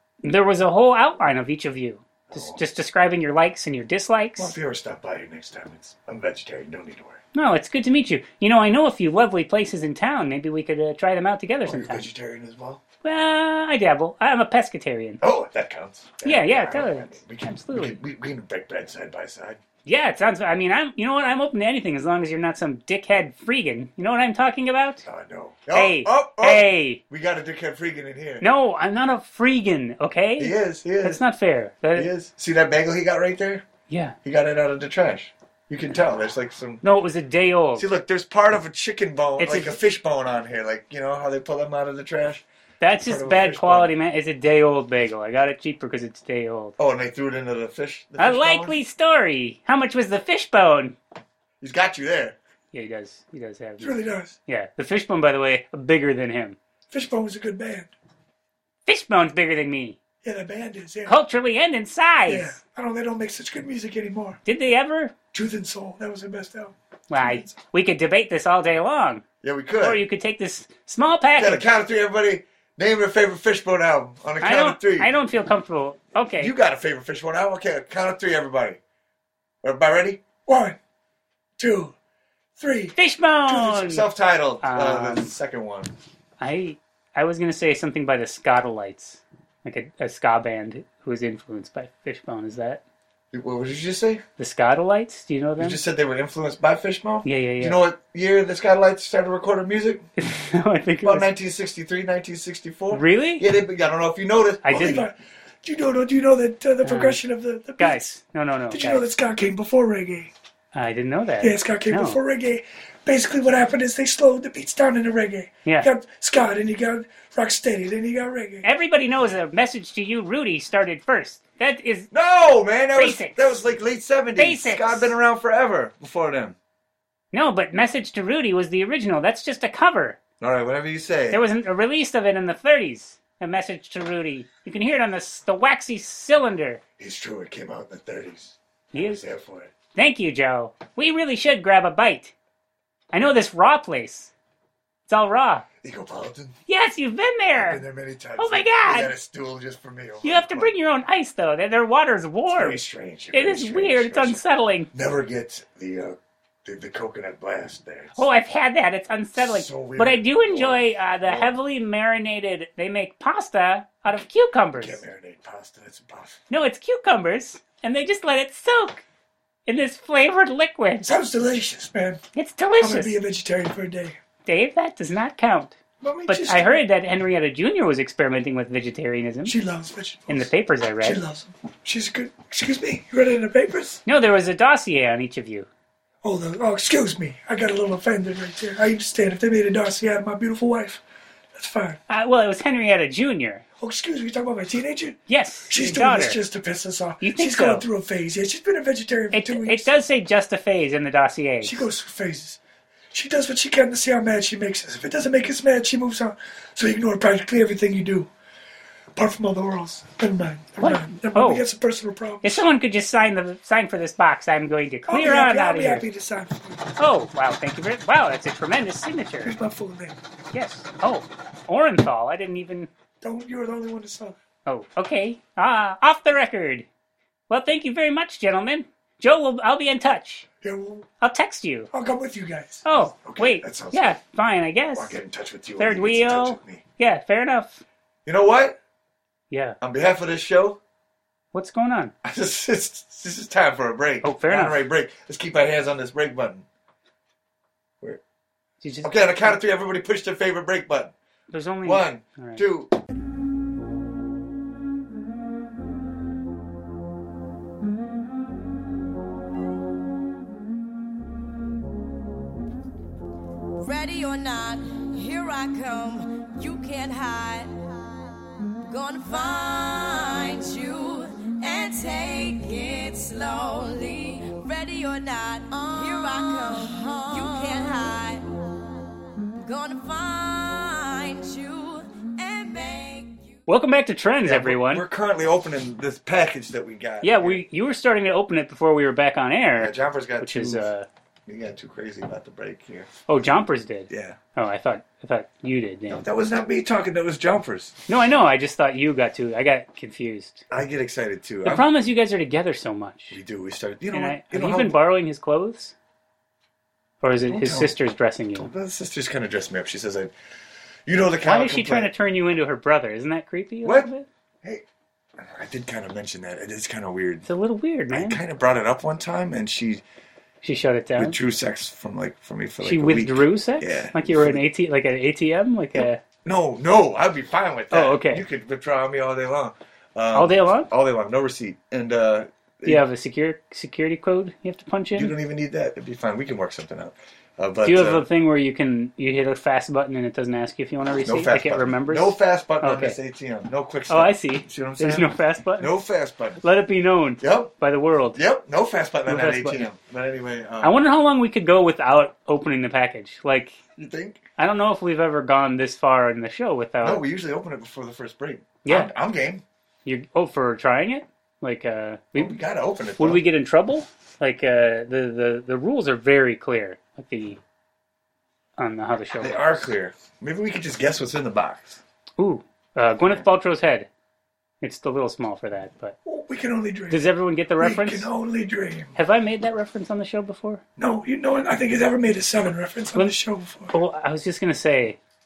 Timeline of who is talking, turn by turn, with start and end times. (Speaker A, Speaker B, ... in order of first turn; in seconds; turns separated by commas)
Speaker A: 0.2-4.5, Speaker B: 2.3-2.6, Speaker B: 4.4-7.2, Speaker A: 7.3-12.1, Speaker B: 11.6-12.8, Speaker A: 13.0-15.2, Speaker B: 15.2-19.6, Speaker A: 16.2-18.0, Speaker A: 19.8-25.0, Speaker B: 25.0-28.4, Speaker A: 25.7-27.0, Speaker A: 28.4-32.1, Speaker B: 30.4-31.2, Speaker B: 31.9-33.6, Speaker A: 33.9-34.2, Speaker B: 34.2-36.8, Speaker A: 36.8-37.9, Speaker B: 37.8-42.4, Speaker A: 39.4-39.7, Speaker A: 42.8-46.8, Speaker B: 43.0-43.9, Speaker B: 46.8-48.8, Speaker A: 48.2-51.0, Speaker B: 51.6-52.4, Speaker A: 52.7-56.6, Speaker C: 53.8-54.4, Speaker C: 56.9-57.9, Speaker A: 58.9-60.0, Speaker C: 60.2-61.2, Speaker A: 61.0-62.6, Speaker C: 62.2-64.4, Speaker A: 64.4-65.1, Speaker C: 65.3-67.5, Speaker A: 67.1-69.2, Speaker B: 69.4-70.0, Speaker A: 69.8-71.6, Speaker B: 71.3-75.1, Speaker A: 74.4-76.5, Speaker B: 76.4-78.8, Speaker B: 79.6-80.2, Speaker C: 80.5-80.8, Speaker C: 81.6-81.9, Speaker C: 82.6-82.9, Speaker A: 83.0-84.0, Speaker B: 83.5-85.9, Speaker A: 84.6-85.3, Speaker A: 86.4-92.8, Speaker B: 93.3-94.2, Speaker A: 94.4-95.8, Speaker B: 95.6-100.1, Speaker A: 97.2-97.8, Speaker A: 100.2-101.3, Speaker B: 101.0-105.0, Speaker A: 102.9-103.4, Speaker A: 104.6-105.0, Speaker C: 104.7-108.0, Speaker A: 106.8-107.2, Speaker A: 107.8-109.0, Speaker C: 108.7-110.3, Speaker A: 110.7-112.2, Speaker C: 111.4-118.7, Speaker A: 118.6-122.1, Speaker B: 122.1-126.5, Speaker A: 122.9-123.6, Speaker A: 124.4-125.1, Speaker A: 127.3-130.2, Speaker B: 130.4-131.4, Speaker A: 131.3-136.8, Speaker B: 137.0-139.7, Speaker A: 138.9-139.2, Speaker A: 139.9-142.3, Speaker A: 143.1-144.3, Speaker A: 145.1-145.7, Speaker B: 145.8-146.5, Speaker A: 146.7-147.8, Speaker B: 147.5-150.7, Speaker A: 148.4-149.1, Speaker A: 150.2-152.8, Speaker B: 152.5-154.4, Speaker A: 153.3-154.9, Speaker B: 154.9-158.3, Speaker A: 158.1-165.0, Speaker B: 159.4-161.6, Speaker B: 164.8-166.4, Speaker A: 166.5-169.0, Speaker A: 169.7-171.1, Speaker C: 171.0-172.2, Speaker A: 172.3-173.2, Speaker C: 172.8-174.2, Speaker A: 174.4-175.8, Speaker C: 176.0-176.8, Speaker A: 176.3-179.6, Speaker C: 179.4-180.5, Speaker A: 180.3-181.2, Speaker C: 181.0-184.0, Speaker A: 184.1-185.7, Speaker C: 186.2-191.0, Speaker C: 191.5-192.0, Speaker A: 192.1-193.6, Speaker C: 193.8-199.9, Speaker A: 195.3-196.4, Speaker A: 197.2-197.8, Speaker A: 199.3-201.8, Speaker C: 201.6-202.6, Speaker C: 203.1-208.3, Speaker C: 209.2-212.7, Speaker A: 210.8-211.6, Speaker A: 212.4-216.0, Speaker C: 215.1-216.9, Speaker A: 217.0-219.5, Speaker C: 219.4-220.2, Speaker A: 220.5-222.9, Speaker C: 223.2-224.4, Speaker A: 224.7-226.9, Speaker A: 227.5-230.4, Speaker C: 230.6-231.1, Speaker A: 231.2-231.9, Speaker C: 231.9-232.8, Speaker A: 232.8-235.2, Speaker B: 233.2-234.2, Speaker B: 234.9-236.8, Speaker A: 235.8-237.8, Speaker B: 238.2-238.8, Speaker A: 239.5-239.8, Speaker B: 239.8-240.8, Speaker A: 241.5-242.1, Speaker B: 242.2-246.7, Speaker A: 244.2-244.8, Speaker A: 248.8-249.6, Speaker B: 249.0-251.1, Speaker A: 251.5-252.6, Speaker B: 251.8-253.0, Speaker D: 263.8-267.7, Speaker D: 268.8-278.4, Speaker D: 279.6-283.6, Speaker A: 283.7-285.0, Speaker B: 284.4-287.6, Speaker A: 287.2-291.1, Speaker B: 289.8-290.9, Speaker B: 291.5-293.1, Speaker A: 293.3-296.2, Speaker B: 294.1-294.4, Speaker B: 296.1-297.9, Speaker A: 298.1-300.6, Speaker B: 300.7-301.9, Speaker A: 301.6-303.4, Speaker B: 303.3-304.9, Speaker A: 304.1-305.9, Speaker A: 307.2-308.7, Speaker B: 307.5-307.9, Speaker B: 308.5-310.3, Speaker B: 311.1-312.1, Speaker A: 311.4-314.3, Speaker B: 313.8-314.1, Speaker B: 315.4-317.4, Speaker A: 317.4-318.4, Speaker B: 318.1-320.0, Speaker A: 320.6-321.4, Speaker B: 321.2-324.6, Speaker A: 322.8-326.2, Speaker B: 325.9-333.0, Speaker A: 327.9-328.4, Speaker A: 330.3-330.9, Speaker A: 332.8-335.3, Speaker B: 335.1-338.2, Speaker A: 337.8-343.2, Speaker B: 341.2-346.6, Speaker A: 344.1-345.9, Speaker A: 346.6-348.4, Speaker B: 347.4-347.7, Speaker B: 348.3-351.0, Speaker A: 349.3-349.9, Speaker A: 350.8-353.8, Speaker B: 353.9-354.4, Speaker A: 354.6-357.2, Speaker B: 357.0-359.6, Speaker A: 358.8-359.1, Speaker A: 360.0-362.6, Speaker B: 362.4-363.4, Speaker A: 363.2-367.6, Speaker A: 368.8-369.6, Speaker B: 369.4-372.0, Speaker A: 372.4-374.1, Speaker A: 374.8-376.1, Speaker C: 376.2-377.3, Speaker A: 377.1-378.3, Speaker C: 377.8-379.1, Speaker A: 379.1-380.8, Speaker C: 381.0-383.9, Speaker A: 383.9-385.2